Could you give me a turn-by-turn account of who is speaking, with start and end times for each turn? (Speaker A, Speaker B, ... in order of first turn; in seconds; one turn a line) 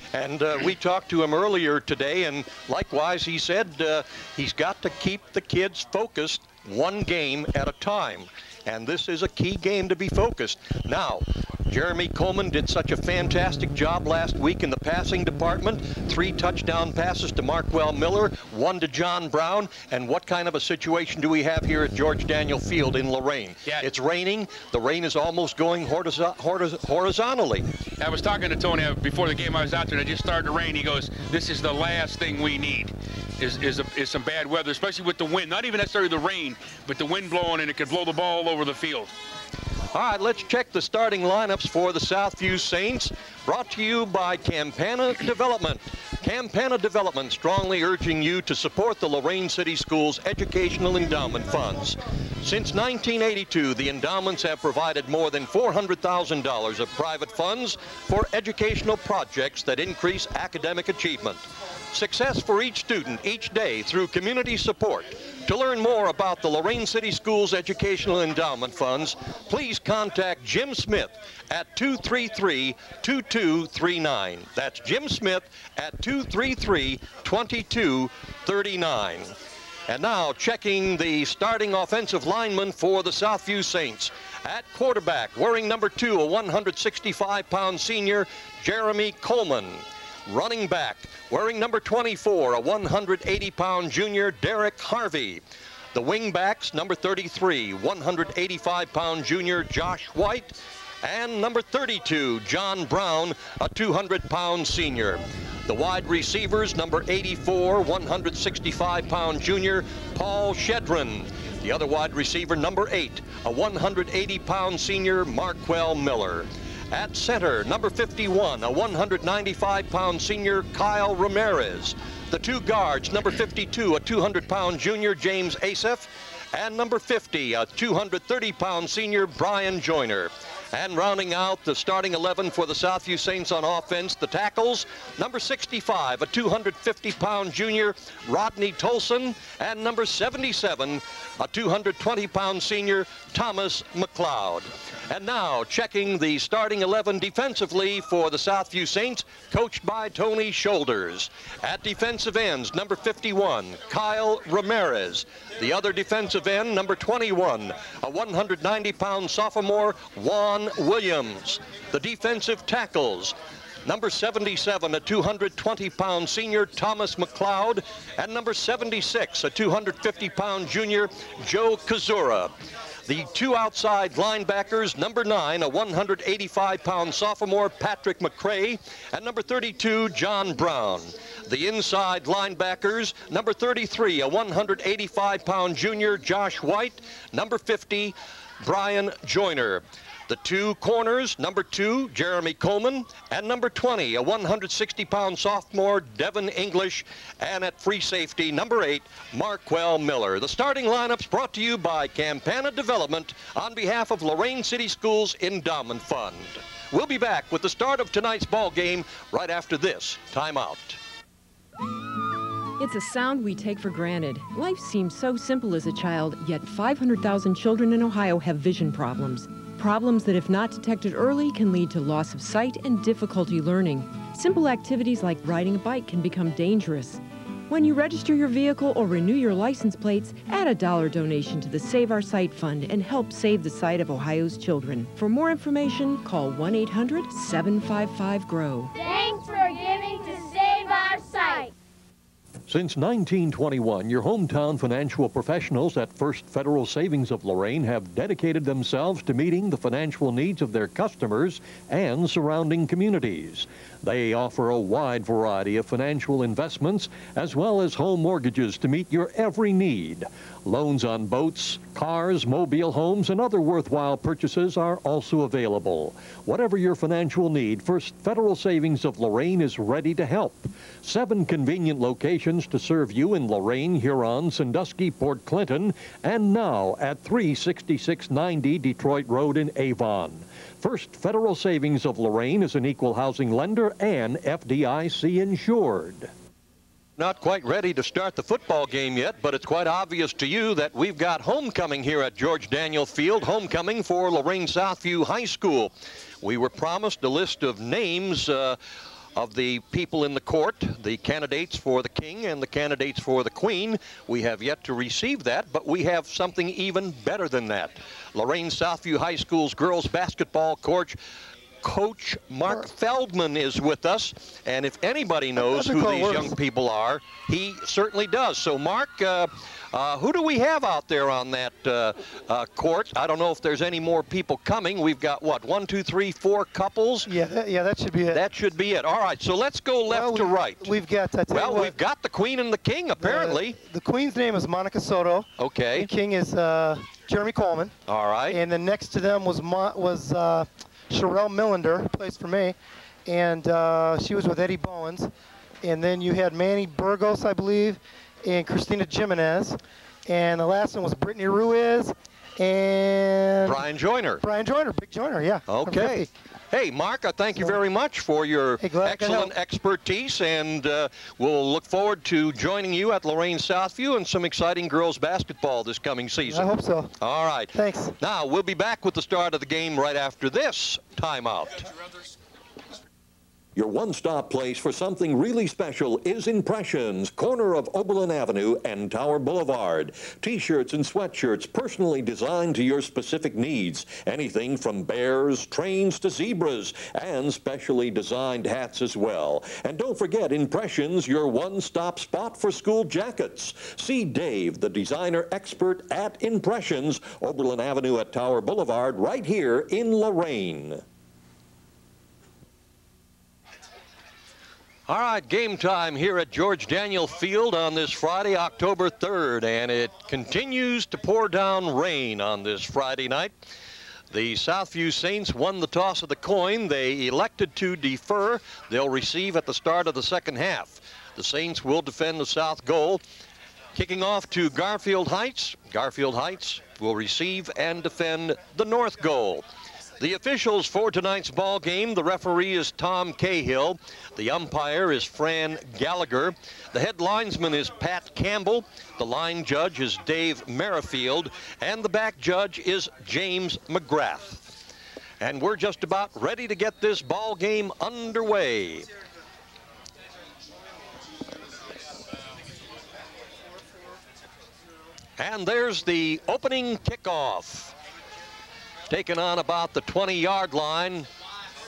Speaker A: 0.1-27.7
Speaker B: 28.0-39.1
Speaker A: 39.9-79.4
Speaker A: 79.9-211.0
Speaker C: 212.8-238.9
Speaker D: 238.9-241.7
Speaker A: 242.7-286.3
Speaker A: 287.2-298.8
Speaker A: 299.4-311.2
Speaker A: 311.8-327.3
Speaker E: 315.6-316.6
Speaker E: 327.3-328.4
Speaker A: 328.3-330.9
Speaker E: 330.1-332.0
Speaker A: 331.5-333.8
Speaker E: 333.2-337.9
Speaker A: 335.6-336.1
Speaker A: 338.1-338.6
Speaker E: 338.5-345.3
Speaker E: 345.8-353.9
Speaker A: 353.6-354.4
Speaker E: 354.4-356.3
Speaker A: 355.7-371.8
Speaker E: 358.8-359.5
Speaker E: 366.4-367.1
Speaker E: 367.7-368.1
Speaker A: 373.8-401.0
Speaker A: 405.1-413.7
Speaker A: 414.3-423.2
Speaker A: 423.9-429.7
Speaker A: 430.2-444.8
Speaker A: 445.4-449.1
Speaker A: 455.4-457.9
Speaker A: 459.1-461.3